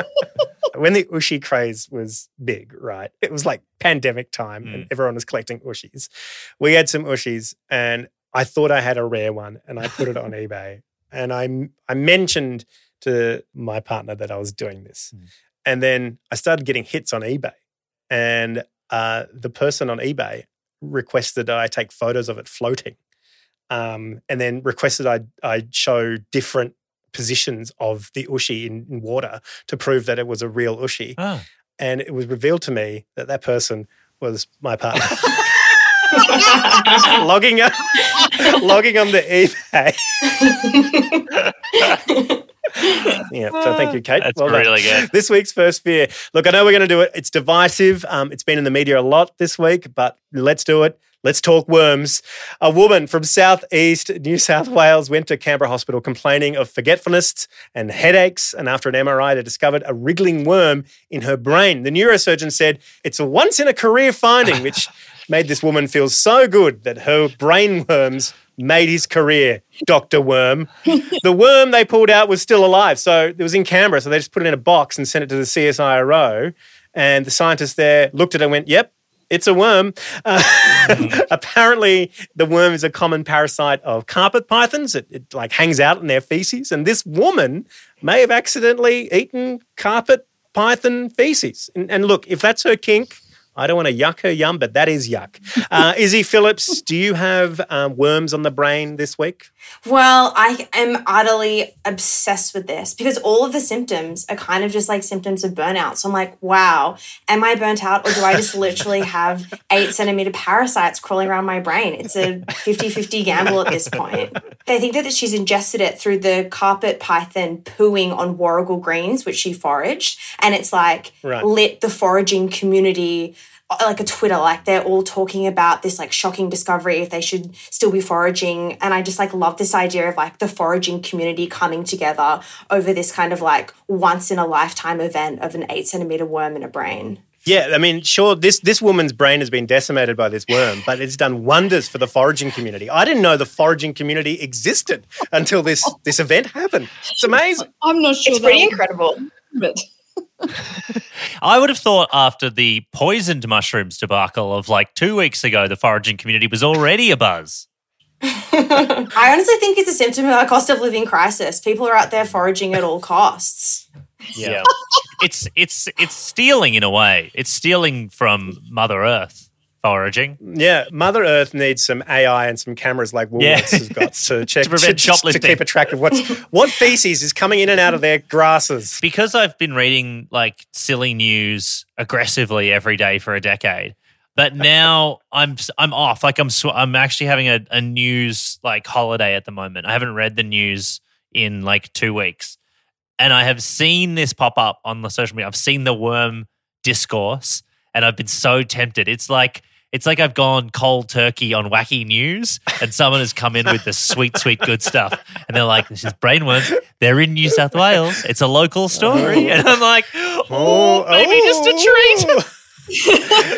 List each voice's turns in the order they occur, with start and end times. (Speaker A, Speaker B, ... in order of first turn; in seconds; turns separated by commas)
Speaker A: 0.7-15.1, Speaker A: 15.6-17.6, Speaker A: 18.1-23.0, Speaker A: 23.7-31.2, Speaker B: 31.2-31.4, Speaker A: 31.8-35.5, Speaker C: 36.2-37.2, Speaker A: 36.5-40.0, Speaker C: 40.3-41.2, Speaker C: 41.9-43.2, Speaker A: 43.3-99.5, Speaker B: 44.2-45.1, Speaker B: 80.8-81.2, Speaker C: 99.8-137.2, Speaker A: 137.4-147.7, Speaker D: 147.6-148.9, Speaker C: 148.2-149.2, Speaker D: 149.4-149.8, Speaker B: 151.4-157.6, Speaker C: 158.2-163.8, Speaker A: 164.3-164.7, Speaker B: 164.4-170.4, Speaker A: 170.4-179.0, Speaker B: 173.4-174.1, Speaker B: 174.6-175.6, Speaker B: 179.0-192.6, Speaker B: 193.2-212.4, Speaker A: 209.0-209.6, Speaker A: 210.5-212.4, Speaker D: 213.1-213.4